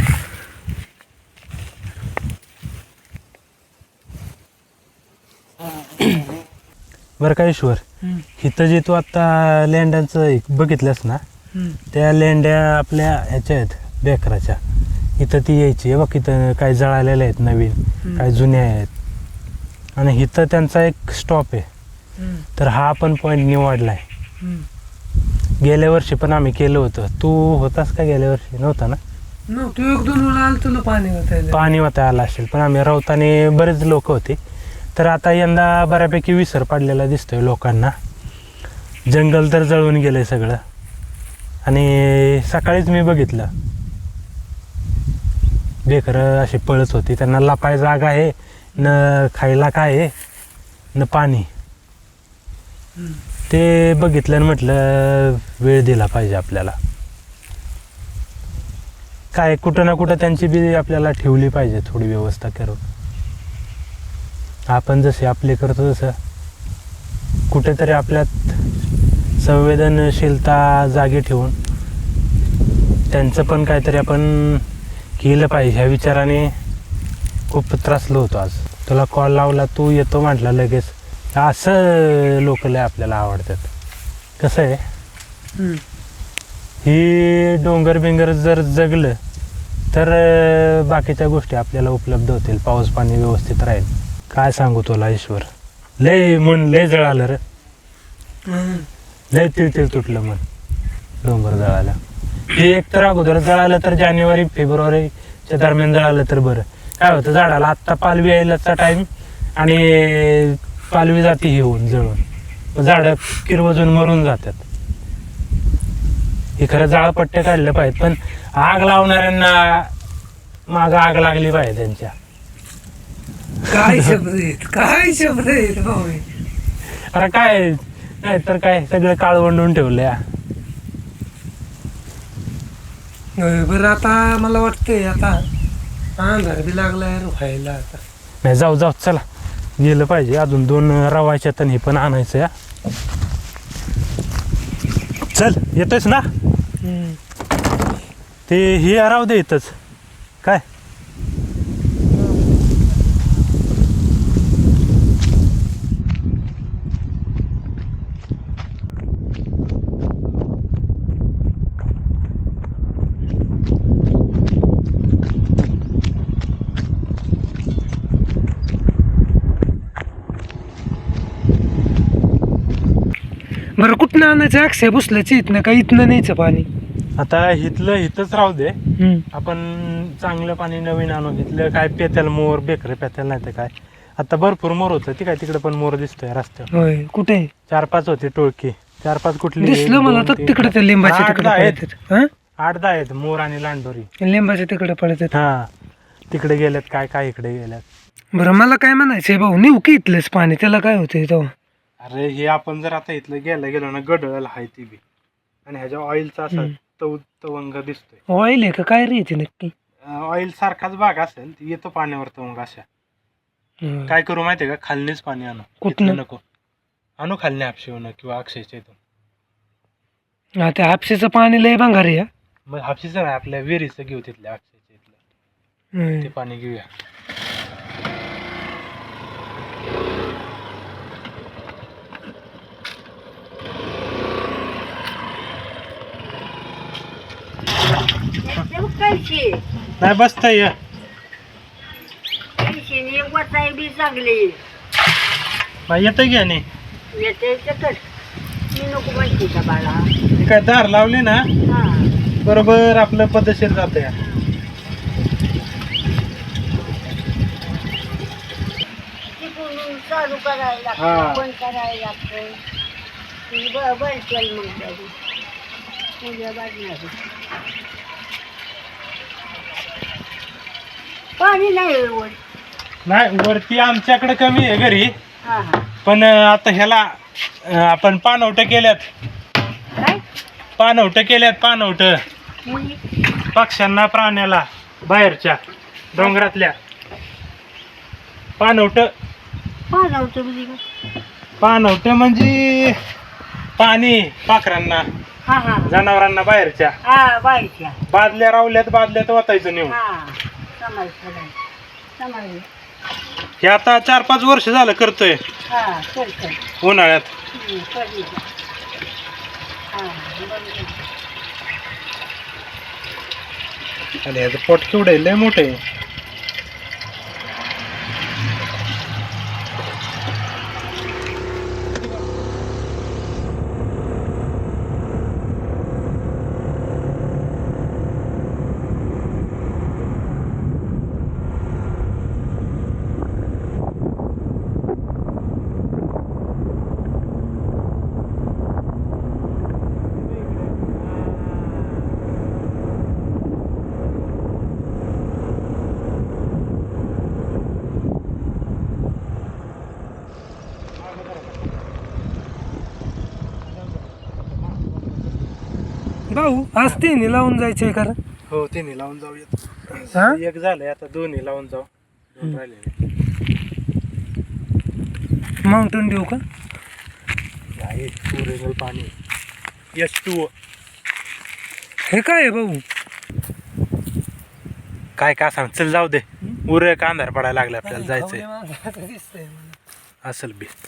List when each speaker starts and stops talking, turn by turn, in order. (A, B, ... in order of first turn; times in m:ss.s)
0:07.2-0:07.8 A
0:08.4-0:11.2 A
0:11.9-0:14.6 A
0:15.2-0:18.9 A
0:20.0-0:21.6 A
0:22.6-0:24.0 A
0:25.6-0:29.0 A
0:29.5-0:31.6 B
0:31.5-0:34.4 A
0:35.0-0:37.9 A
0:39.1-0:40.6 A
0:41.6-0:43.5 A
0:45.8-0:50.1 A
0:50.9-0:51.5 A
0:53.5-0:56.8 A
0:59.3-1:02.8 A
1:04.7-1:06.1 A
1:07.5-1:08.5 A
1:09.4-1:11.5 A
1:13.1-1:14.6 A
1:15.2-1:16.5 A
1:17.5-1:23.7 A
1:24.4-1:24.8 A
1:26.8-1:29.2 A
1:29.9-1:35.5 A
1:36.0-1:37.4 A
1:38.5-1:38.8 B
1:39.3-1:40.4 A
1:41.2-1:42.0 A
1:42.5-1:52.2 A
1:52.7-1:54.6 A
1:56.6-1:59.9 A
2:00.7-2:02.1 A
2:03.7-2:04.2 A
2:03.7-2:06.2 B
2:07.1-2:10.2 A
2:13.4-2:15.4 B
2:16.2-2:18.0 B
2:18.4-2:19.2 A
2:19.8-2:22.5 A
2:25.3-2:26.2 A
2:26.8-2:27.2 B
2:28.5-2:29.7 A
2:53.8-2:56.7 B
2:57.2-2:58.8 A
2:59.0-2:59.2 B
2:59.3-3:06.7 A
3:06.7-3:07.5 B
3:07.7-3:11.8 A
3:09.6-3:12.3 B
3:12.6-3:14.1 A
3:14.2-3:15.3 B
3:15.3-3:15.7 A
3:16.3-3:17.8 A
3:18.3-3:21.5 B
3:22.0-3:25.0 A
3:25.6-3:28.2 A
3:28.3-3:29.7 B
3:30.0-3:32.8 A
3:34.1-3:36.4 A
3:35.8-3:36.2 B
3:37.2-3:39.0 A
3:40.6-3:42.3 B
3:42.7-3:45.2 A
3:46.0-3:46.3 B
3:46.2-3:46.9 A
3:58.4-3:59.6 C
4:00.0-4:00.7 A
4:02.6-4:04.6 C
4:05.9-4:06.6 A
4:07.2-4:08.0 C
4:08.7-4:10.1 C
4:10.4-4:11.4 A
4:11.7-4:12.1 C
4:12.4-4:14.1 A
4:14.2-4:14.5 C
4:19.3-4:22.6 C
4:21.0-4:21.4 A
4:23.5-4:25.1 C
4:26.2-4:27.2 C
4:31.4-4:32.4 C
4:33.1-4:35.1 A
4:35.4-4:35.9 C
4:36.0-4:37.1 A
4:37.6-4:39.0 A
4:40.0-4:40.2 C
4:40.8-4:42.2 A
4:42.6-4:43.0 C
4:43.5-4:45.6 A
4:46.1-4:46.7 A
4:46.2-4:46.5 C
4:48.6-4:49.1 A
4:49.9-4:50.8 C
4:51.6-4:53.0 A
4:53.8-4:55.0 A
4:55.4-4:55.9 C
4:55.8-4:56.9 A
4:57.0-4:58.0 C
4:58.1-5:00.0 A
4:59.9-5:01.5 C
5:02.2-5:02.7 C
5:03.6-5:05.4 A
5:05.7-5:06.6 C
5:06.8-5:07.3 A
5:07.5-5:08.4 C
5:09.9-5:11.0 C
5:14.2-5:15.8 A
5:51.0-5:51.6 A
5:53.8-5:55.4 A
5:56.3-5:58.2 B
5:58.5-6:02.9 A
6:00.1-6:00.4 B
6:05.7-6:06.4 B
6:07.8-6:09.1 A
6:09.9-6:10.5 A
6:12.1-6:12.8 B
6:15.2-6:18.4 A
6:17.8-6:19.8 B
6:20.2-6:20.7 A